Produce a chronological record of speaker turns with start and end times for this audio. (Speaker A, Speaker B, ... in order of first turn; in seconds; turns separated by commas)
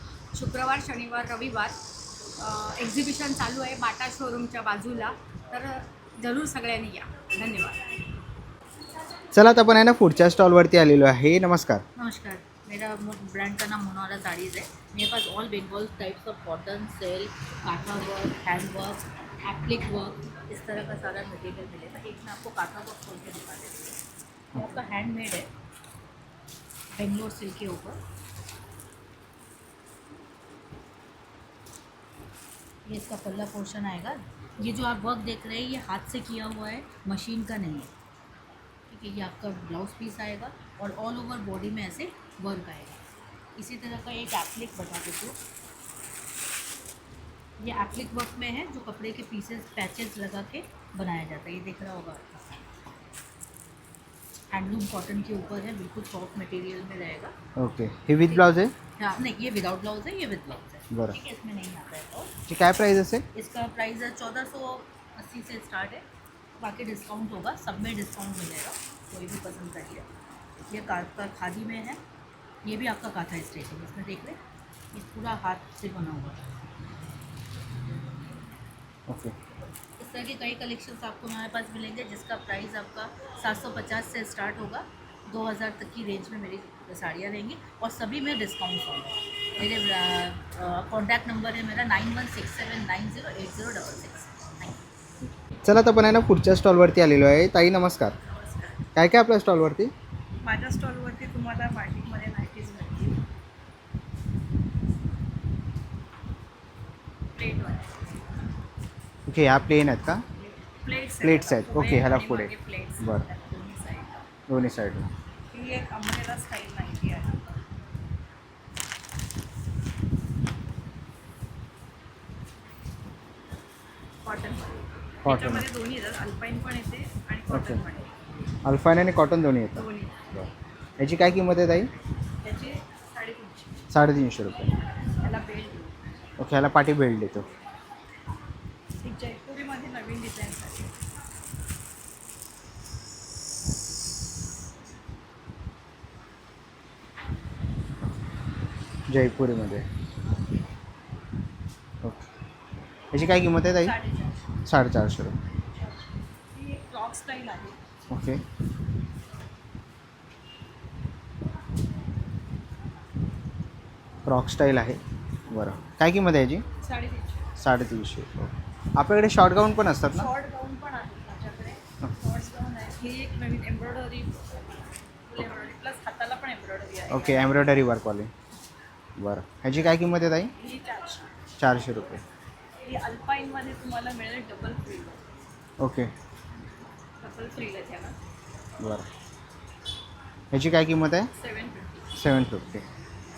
Speaker A: 0.3-1.8, Speaker A: 2.4-7.8, Speaker B: 9.3-11.8, Speaker C: 11.9-24.0, Speaker C: 24.5-25.5, Speaker C: 26.9-28.0, Speaker C: 32.9-37.9, Speaker C: 38.9-43.0, Speaker C: 43.5-45.4, Speaker C: 47.6-52.6, Speaker C: 54.5-57.3, Speaker B: 57.6-58.7, Speaker C: 59.0-62.3, Speaker B: 60.9-61.1, Speaker B: 62.5-63.2, Speaker C: 63.3-66.0, Speaker C: 66.6-70.0, Speaker C: 70.7-72.0, Speaker C: 72.6-74.4, Speaker C: 74.9-76.4, Speaker B: 79.1-79.3, Speaker C: 80.0-94.8, Speaker B: 95.6-98.1, Speaker C: 98.3-98.8, Speaker B: 98.9-99.9, Speaker D: 100.4-103.2, Speaker D: 107.4-107.9, Speaker B: 109.3-110.2, Speaker D: 110.8-112.5, Speaker B: 111.2-113.2, Speaker D: 113.0-114.2, Speaker B: 114.5-115.1, Speaker D: 115.5-117.3, Speaker D: 124.2-125.7, Speaker B: 125.2-125.7, Speaker D: 126.3-126.9, Speaker B: 127.5-127.8, Speaker B: 128.6-131.9, Speaker D: 129.8-130.0, Speaker D: 132.4-133.8, Speaker B: 133.9-134.7, Speaker B: 136.4-137.5, Speaker D: 139.0-140.9, Speaker B: 149.1-149.8, Speaker B: 152.0-152.3, Speaker B: 153.1-154.0, Speaker D: 153.8-154.3, Speaker B: 154.7-155.4, Speaker D: 156.5-157.7, Speaker B: 158.1-158.4, Speaker B: 164.2-166.6, Speaker B: 167.6-170.3, Speaker C: 170.6-171.7, Speaker C: 172.4-172.7, Speaker A: 172.9-174.2, Speaker A: 175.4-176.9, Speaker C: 175.9-177.4, Speaker B: 177.1-178.3, Speaker B: 179.2-180.5, Speaker B: 181.6-182.2, Speaker A: 183.2-184.8, Speaker C: 183.7-185.2, Speaker B: 185.8-186.1, Speaker C: 187.2-188.0, Speaker B: 188.8-189.1, Speaker B: 190.5-191.3, Speaker B: 192.1-192.8